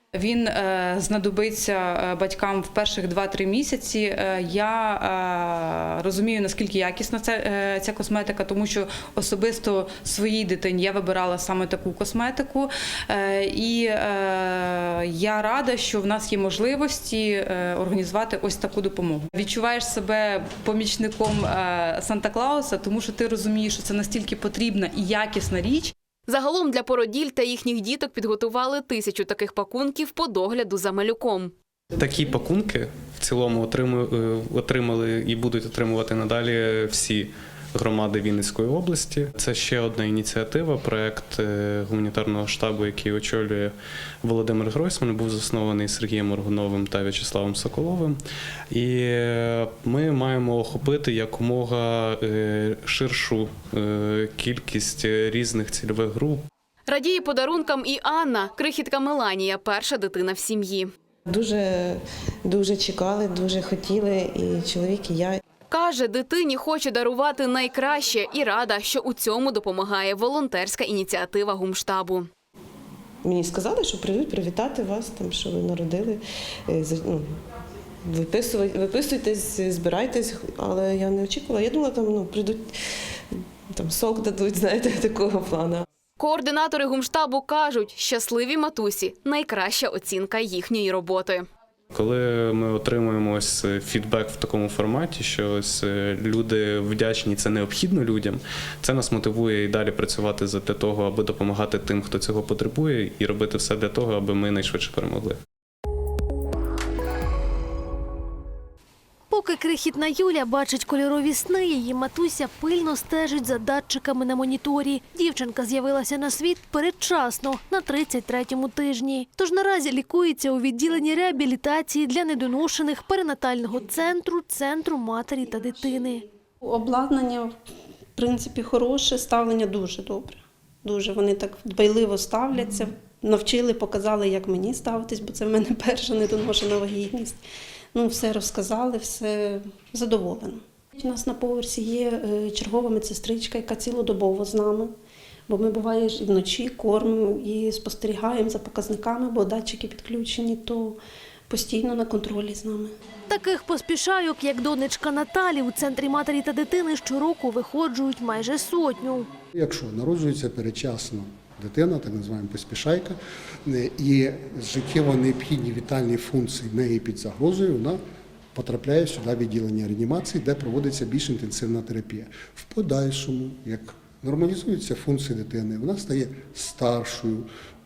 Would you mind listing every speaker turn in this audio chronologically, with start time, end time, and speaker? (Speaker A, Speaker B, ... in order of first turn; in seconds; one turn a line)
Speaker A: 0.1-25.9
Speaker B: 26.3-31.5
Speaker C: 32.0-48.2
Speaker C: 48.7-56.5
Speaker B: 56.9-60.9
Speaker D: 61.3-65.4
Speaker B: 65.7-72.3
Speaker D: 73.2-77.4
Speaker D: 78.0-82.8
Speaker D: 83.7-85.8
Speaker B: 86.2-91.5
Speaker C: 91.9-105.4
Speaker E: 109.3-126.2
Speaker F: 126.6-127.6
Speaker F: 128.2-137.4
Speaker F: 137.9-144.9
Speaker F: 145.5-152.9
Speaker E: 153.3-159.3
Speaker G: 159.5-168.0
Speaker G: 168.5-177.5